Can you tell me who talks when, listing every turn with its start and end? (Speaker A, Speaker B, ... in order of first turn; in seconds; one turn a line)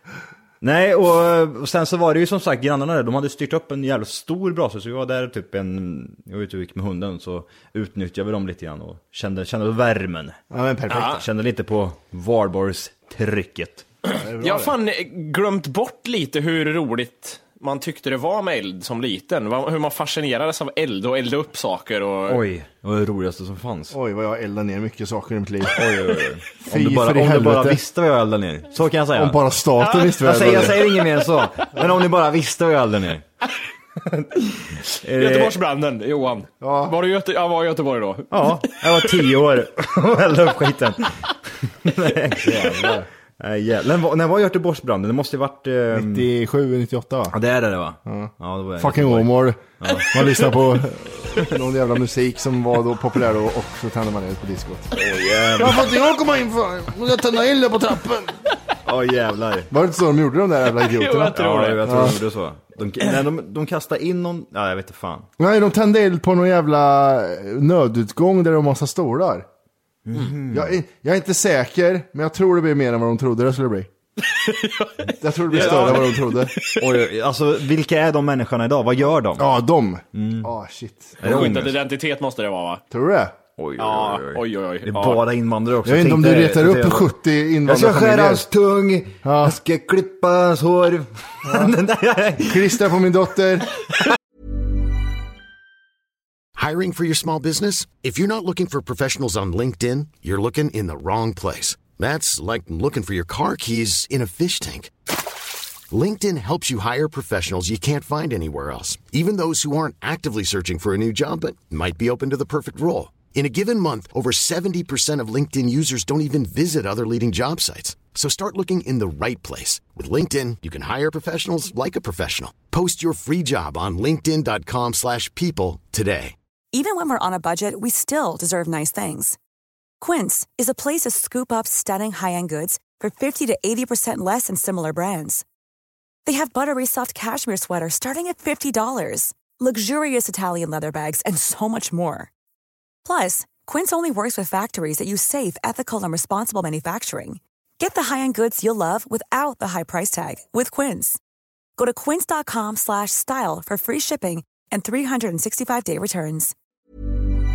Speaker A: 0.6-10.4
Speaker B: 10.5-11.2
Speaker C: 10.9-11.2
Speaker A: 10.9-13.8
Speaker B: 14.1-14.8
Speaker C: 14.4-22.4
Speaker A: 22.3-23.9
Speaker B: 23.9-25.8
Speaker A: 25.7-29.4
Speaker B: 26.6-27.8
Speaker B: 29.1-30.8
Speaker A: 30.0-33.2
Speaker A: 34.2-35.5
Speaker C: 35.1-39.3
Speaker B: 36.6-36.9
Speaker A: 38.3-46.3
Speaker B: 42.4-43.1
Speaker B: 45.9-47.3
Speaker A: 47.3-50.5
Speaker B: 48.0-54.9
Speaker A: 54.9-55.9
Speaker B: 55.6-58.4
Speaker A: 58.9-59.7
Speaker B: 59.7-62.2
Speaker C: 60.8-62.0
Speaker A: 61.3-65.3
Speaker B: 65.4-69.5
Speaker A: 70.0-70.7
Speaker B: 70.5-73.9
Speaker C: 74.2-76.8
Speaker B: 75.2-76.5
Speaker A: 75.5-76.0
Speaker A: 76.8-79.5
Speaker B: 79.4-81.3
Speaker A: 80.1-80.5
Speaker A: 81.2-81.8
Speaker C: 81.2-82.8
Speaker B: 82.9-83.3
Speaker A: 83.6-87.1
Speaker C: 83.8-85.2
Speaker B: 85.8-88.4
Speaker A: 87.6-92.8
Speaker B: 89.2-89.5
Speaker B: 91.5-91.7
Speaker B: 92.4-93.7
Speaker D: 96.5-104.9
Speaker D: 105.9-126.3
Speaker E: 126.7-129.4
Speaker E: 130.0-135.4
Speaker E: 136.2-142.3
Speaker E: 143.0-151.2
Speaker E: 151.8-156.5